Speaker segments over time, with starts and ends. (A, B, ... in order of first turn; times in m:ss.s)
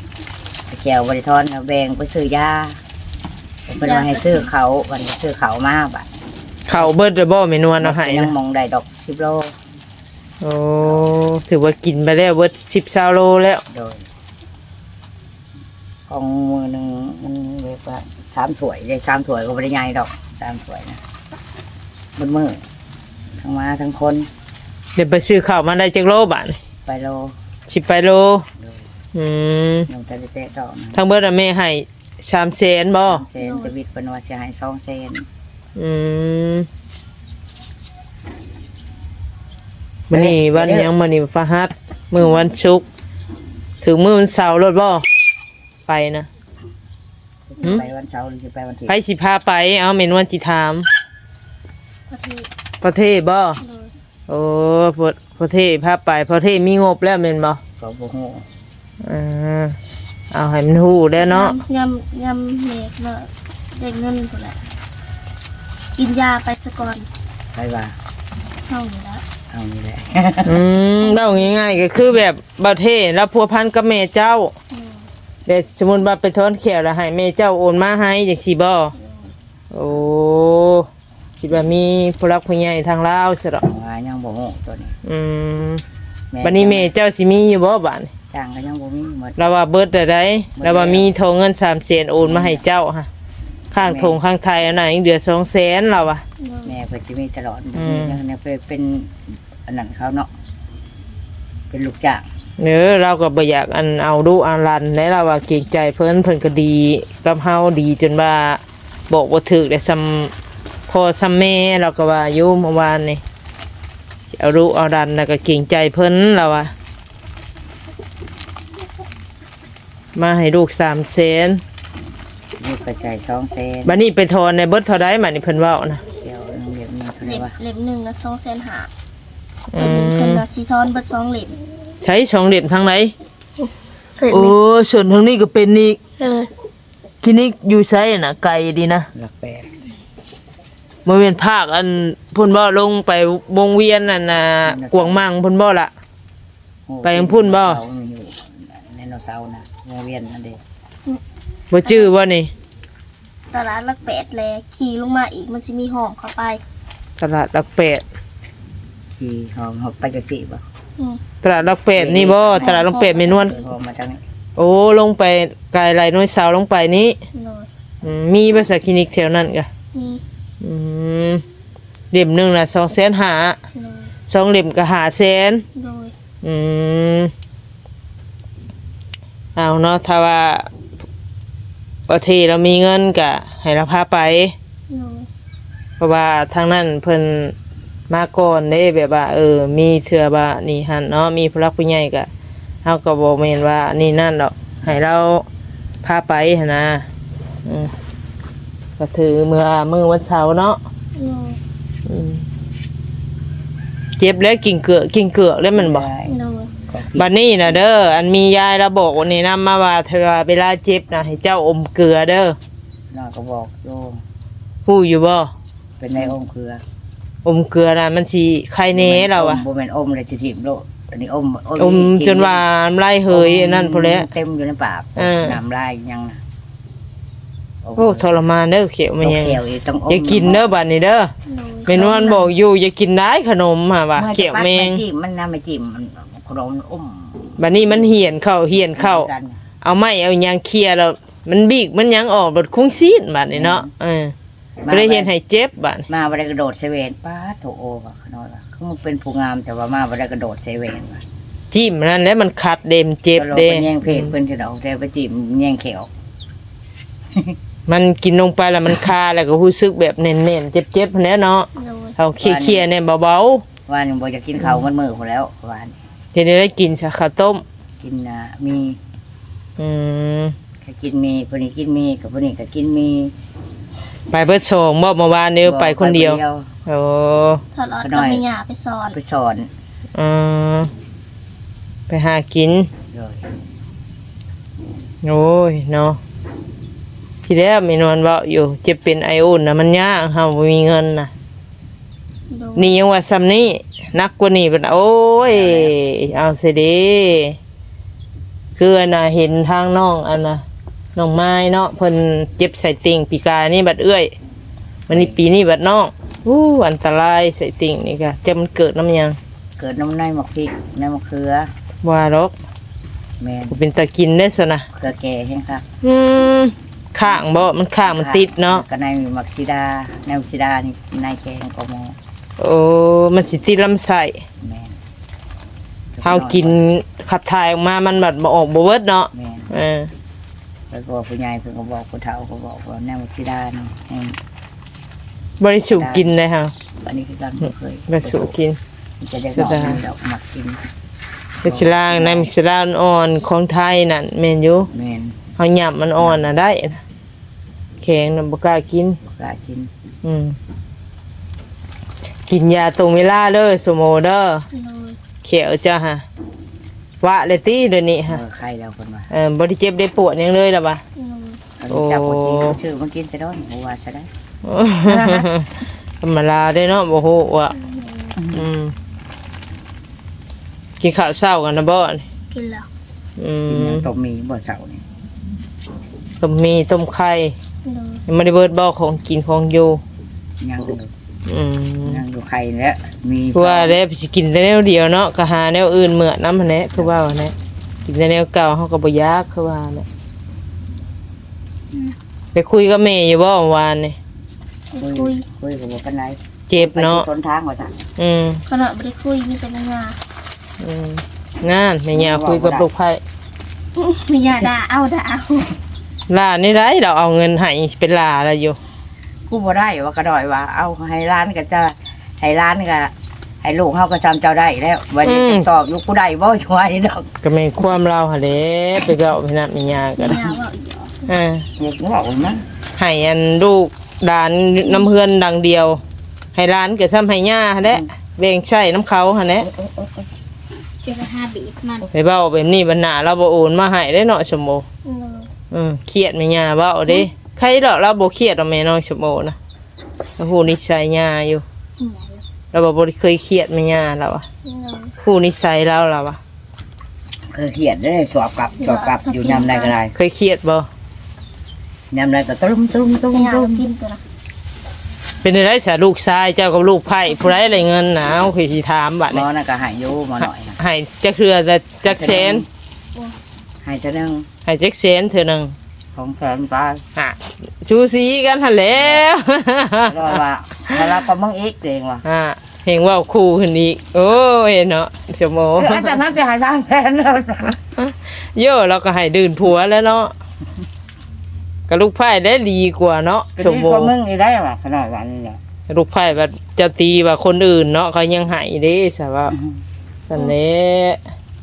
0:00.7-0:02.8 A
0:03.7-0:06.1 A
0:03.8-0:04.5 B
0:06.7-0:08.3 C
0:07.8-0:09.5 A
0:10.4-0:13.6 C
0:13.7-0:14.0 A
0:16.1-0:21.0 A
0:22.2-0:22.6 A
0:23.4-0:24.3 A
0:25.0-0:26.6 C
0:26.8-0:27.3 A
0:27.7-0:28.4 C
0:29.1-0:29.9 C
0:29.9-0:31.0 A
0:30.9-0:33.2 C
0:33.1-0:35.2 A
0:33.4-0:33.7 B
0:35.8-0:36.7 C
0:40.1-0:42.8 C
0:40.1-0:40.9 A
0:43.8-0:45.0 C
0:45.9-0:46.3 C
0:47.5-0:49.0 A
0:48.9-0:50.9 C
0:52.1-0:52.5 B
0:52.8-0:53.6 C
0:53.6-0:53.9 B
0:54.3-0:57.6 C
0:57.8-0:58.4 A
0:59.0-0:59.8 C
1:00.3-1:01.6 C
1:01.2-1:04.6 B
1:06.0-1:07.1 B
1:07.5-1:07.9 A
1:08.7-1:09.2 B
1:09.5-1:10.6 A
1:10.4-1:14.5 C
1:11.0-1:11.5 B
1:14.7-1:15.1 B
1:15.4-1:18.9 C
1:18.9-1:19.3 B
1:19.7-1:20.9 C
1:21.4-1:23.6 C
1:23.6-1:25.0 A
1:25.0-1:25.8 C
1:26.3-1:26.9 A
1:26.4-1:28.1 C
1:28.3-1:29.4 A
1:29.4-1:33.1 C
1:30.6-1:31.1 A
1:32.2-1:32.6 A
1:33.7-1:36.2 C
1:33.8-1:34.2 A
1:36.4-1:36.7 B
1:36.6-1:40.3 A
1:37.8-1:38.2 C
1:41.7-1:42.2 A
1:42.6-1:50.3 C
1:50.9-1:53.2 C
1:54.3-1:56.7 C
2:00.1-2:01.6 C
2:02.6-2:04.0 A
2:03.8-2:06.0 C
2:06.1-2:07.5 A
2:07.2-2:08.9 B
2:09.7-2:10.4 C
2:09.8-2:11.6 B
2:12.0-2:13.1 C
2:13.6-2:14.5 B
2:14.3-2:16.0 C
2:16.2-2:16.5 B
2:17.2-2:19.1 C
2:19.1-2:19.7 A
2:21.0-2:25.9 C
2:24.6-2:25.3 A
2:26.9-2:30.6 A
2:27.0-2:27.8 C
2:31.7-2:32.5 C
2:31.8-2:32.1 B
2:33.5-2:36.6 B
2:37.2-2:38.0 C
2:39.1-2:40.6 A
2:41.4-2:43.6 C
2:41.9-2:42.8 A
2:42.6-2:43.7 B
2:43.4-2:44.2 A
2:44.6-2:47.2 C
2:47.3-2:47.7 B
2:48.0-2:49.7 C
2:49.9-2:50.2 B
2:50.6-2:51.4 C
2:52.1-2:53.6 C
2:53.7-2:54.1 B
2:54.3-2:55.6 C
2:55.8-2:56.1 B
2:56.4-2:57.3 C
2:59.6-3:00.7 C
3:02.1-3:04.5 C
3:04.9-3:05.3 B
3:06.0-3:07.5 C
3:08.1-3:12.3 C
3:12.8-3:15.4 C
3:16.0-3:17.1 C
3:17.6-3:17.9 C
3:19.0-3:20.8 C
3:21.1-3:21.6 B
3:22.0-3:22.4 C
3:24.2-3:26.1 C
3:25.7-3:26.3 A
3:26.2-3:26.7 B
3:26.9-3:27.3 A
3:27.2-3:32.6 C
3:33.1-3:34.2 A
3:34.8-3:35.5 C
3:36.0-3:36.8 A
3:37.4-3:39.6 C
3:38.9-3:42.6 A
3:41.8-3:44.3 C
3:43.3-3:46.4 A
3:45.2-3:45.6 C
3:47.8-3:48.4 A
3:48.0-3:51.3 C
3:49.2-3:50.7 A
3:51.4-3:52.5 B
3:51.9-3:55.0 C
3:54.1-3:58.1 A
3:57.6-3:59.3 C
3:58.9-3:59.6 A
3:59.8-4:04.3 C
4:03.5-4:03.9 A
4:04.8-4:05.3 A
4:04.9-4:06.0 C
4:06.1-4:11.2 A
4:11.7-4:14.3 C
4:13.4-4:16.1 A
4:17.9-4:23.6 C
4:21.8-4:22.2 B
4:22.4-4:22.8 A
4:23.9-4:26.0 A
4:26.3-4:27.6 C
4:28.0-4:29.0 A
4:29.8-4:30.6 C
4:30.8-4:33.3 A
4:34.3-4:37.6 C
4:35.6-4:36.7 A
4:37.7-4:39.2 B
4:38.0-4:38.4 A
4:39.1-4:39.7 A
4:40.1-4:40.9 C
4:42.1-4:42.9 C
4:43.1-4:43.4 A
4:45.2-4:46.2 C
4:47.4-4:51.3 C
4:52.5-4:52.9 B
4:52.8-4:57.6 C
4:55.5-4:55.9 A
4:58.8-5:00.6 C
5:01.2-5:04.3 C
5:05.1-5:09.4 C
5:05.1-5:05.4 A
5:09.8-5:11.7 A
5:12.0-5:12.5 C
5:13.4-5:13.8 A
5:13.7-5:14.8 C
5:14.9-5:15.8 A
5:16.0-5:18.8 C
5:18.0-5:22.2 A
5:22.6-5:24.4 C
5:24.6-5:25.0 A
5:26.1-5:26.9 A
5:26.2-5:30.1 C
5:29.3-5:29.7 A
5:30.9-5:34.4 A
5:35.6-5:36.7 C
5:35.9-5:36.3 A
5:37.0-5:38.5 A
5:38.1-5:38.8 C
5:39.2-5:40.8 A
5:39.5-5:40.0 C
5:41.6-5:44.9 C
5:41.6-5:42.5 A
5:44.9-5:45.4 A
5:45.6-5:47.0 C
5:46.2-5:46.5 A
5:48.0-5:49.2 C
5:49.2-5:49.9 A
5:50.2-5:50.6 C
5:52.5-5:54.6 C
5:54.7-5:55.2 B
5:55.4-5:56.2 C
5:57.2-5:58.4 C
5:58.3-5:59.3 A
5:59.3-6:01.0 C
6:01.2-6:01.6 B
6:01.8-6:04.3 A
6:01.9-6:02.8 C
6:04.6-6:07.7 C
6:05.0-6:05.5 A
6:07.7-6:08.4 B
6:08.4-6:08.7 A
6:08.5-6:08.9 C
6:11.0-6:12.2 C
6:12.5-6:12.9 B
6:13.4-6:14.0 C
6:13.7-6:15.0 A
6:16.4-6:17.5 C
6:17.8-6:18.2 B
6:18.3-6:20.0 C
6:20.6-6:21.1 A
6:21.5-6:22.2 C
6:22.0-6:24.0 A
6:23.5-6:27.5 C
6:28.0-6:30.0 C
6:32.5-6:34.2 C
6:34.9-6:35.4 B
6:35.0-6:38.0 A
6:36.7-6:37.3 C
6:38.2-6:38.6 C
6:38.7-6:40.2 B
6:40.8-6:43.2 C
6:42.1-6:42.9 A
6:44.0-6:45.7 B
6:46.3-6:48.8 C
6:49.5-6:57.3 A
6:55.2-6:55.6 C
6:57.4-7:00.5 C
7:00.2-7:01.1 B
7:01.2-7:01.6 C
7:01.8-7:02.6 A
7:03.0-7:06.0 C
7:06.5-7:09.7 C
7:09.6-7:10.2 A
7:11.0-7:12.1 B
7:12.1-7:14.8 C
7:15.0-7:15.5 B
7:15.7-7:19.6 C
7:20.4-7:21.6 C
7:22.0-7:22.4 B
7:22.7-7:24.4 C
7:24.6-7:25.1 B
7:25.2-7:26.4 C
7:27.5-7:30.1 A
7:28.8-7:30.0 B
7:30.1-7:30.9 C
7:32.1-7:33.8 A
7:33.3-7:34.2 B
7:35.4-7:39.4 C
7:39.3-7:40.8 A
7:40.4-7:42.6 C
7:42.0-7:42.6 A
7:43.8-7:44.5 A
7:44.6-7:45.7 C
7:46.1-7:47.0 A
7:47.2-7:51.0 C
7:48.9-7:49.2 A
7:50.0-7:52.2 A
7:52.2-7:56.2 C
7:55.8-7:57.8 A
7:58.0-8:00.3 C
8:01.9-8:04.1 C
8:03.6-8:05.6 A
8:05.9-8:09.5 C
8:10.3-8:11.2 C